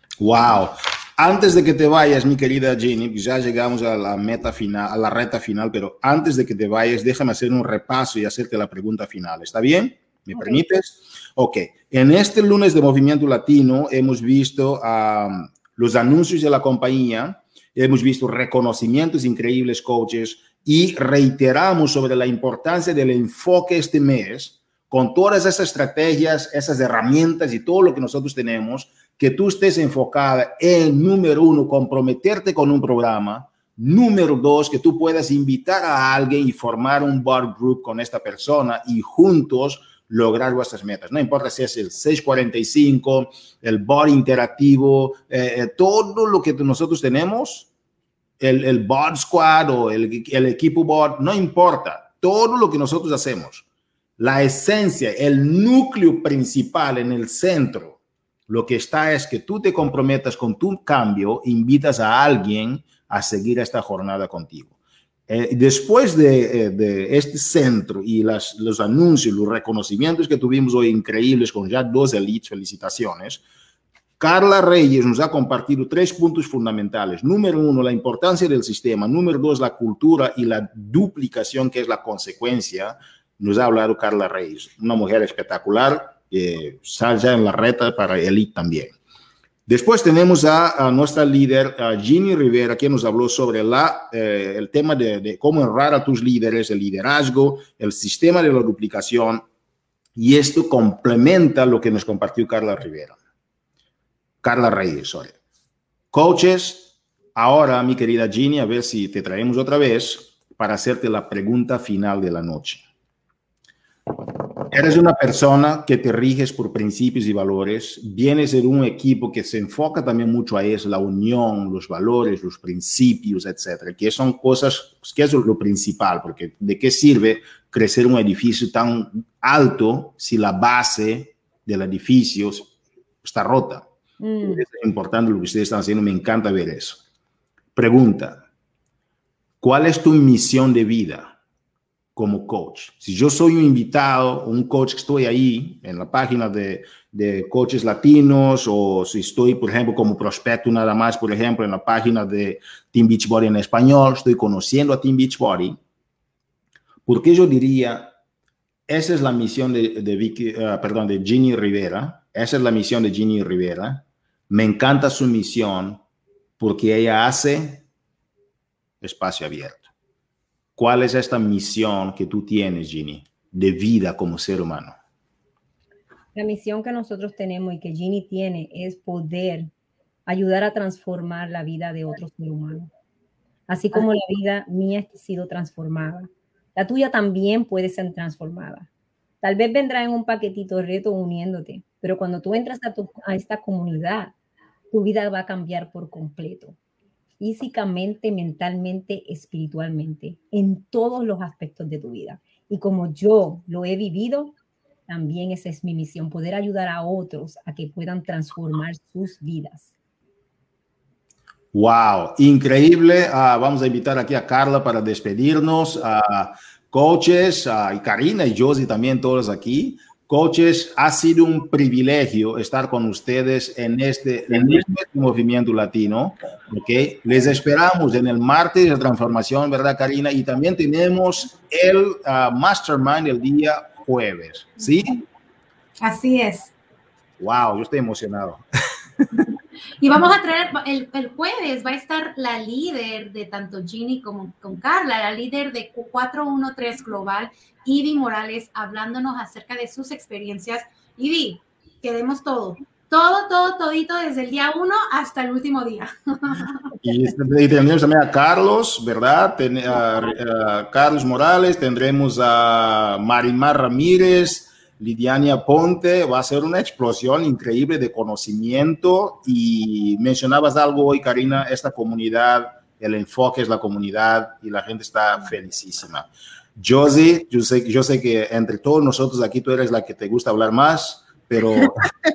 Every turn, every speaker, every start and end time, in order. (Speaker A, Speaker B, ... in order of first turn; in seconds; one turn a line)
Speaker A: 0.2-47.7
Speaker B: 10.3-10.7
Speaker A: 48.4-53.6
Speaker A: 54.2-64.7
Speaker A: 65.3-73.4
Speaker A: 74.2-88.9
Speaker A: 89.7-99.4
Speaker A: 100.2-103.2
Speaker A: 104.4-105.4
Speaker A: 106.1-112.8
Speaker A: 114.7-132.7
Speaker A: 133.2-133.9
Speaker B: 134.2-134.6
Speaker A: 134.4-137.0
Speaker A: 137.8-138.4
Speaker A: 139.6-141.3
Speaker A: 142.2-155.8
Speaker A: 157.1-158.1
Speaker A: 158.9-166.0
Speaker A: 166.6-167.8
Speaker A: 169.0-169.9
Speaker A: 170.8-175.0
Speaker B: 176.3-179.7
Speaker B: 180.3-182.9
Speaker B: 183.7-188.9
Speaker B: 189.4-194.3
Speaker B: 194.9-196.8
Speaker B: 197.4-204.6
Speaker B: 205.1-209.9
Speaker A: 211.7-235.2
Speaker C: 236.0-236.7
Speaker A: 237.4-238.6
Speaker C: 240.0-256.9
Speaker A: 257.0-282.0